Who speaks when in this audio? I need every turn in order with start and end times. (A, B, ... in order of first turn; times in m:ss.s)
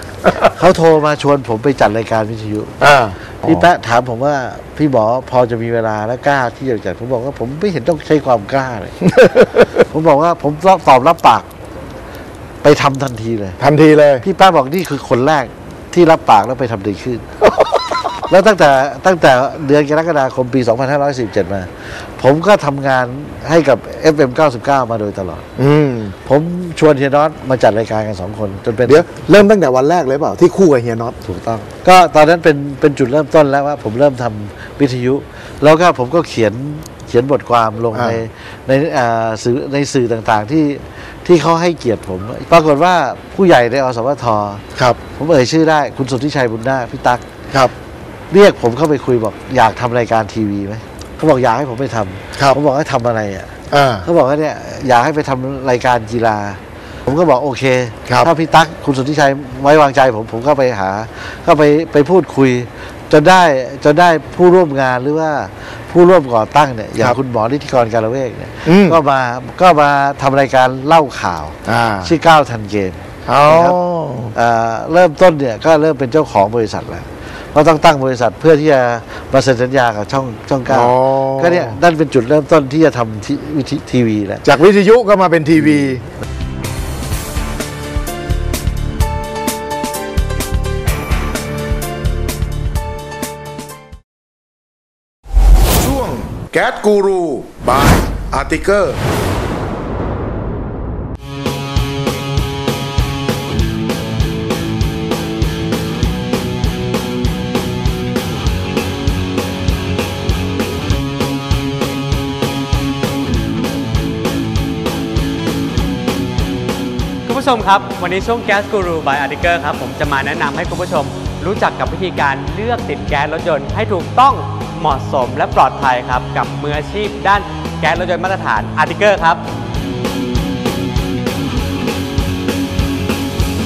0:00.4-0:02.8 A
0:02.8-0:03.6 B
0:03.4-0:11.5 A
0:12.6-0:13.6 A
0:13.6-0:14.2 B
0:14.2-0:17.2 A
0:18.3-0:25.5 A
0:25.6-0:26.1 B
0:26.2-0:29.1 A
0:28.9-0:31.2 B
0:31.2-0:47.2 A
0:37.9-0:38.2 B
0:44.8-0:45.0 B
0:48.3-1:13.8 A
0:53.7-0:54.0 B
1:08.6-1:09.0 B
1:11.7-1:12.1 B
1:13.2-1:14.3 B
1:14.3-1:24.4 A
1:20.7-1:21.8 B
1:24.4-1:26.0 B
1:35.8-1:39.0 B
1:57.2-2:09.4 C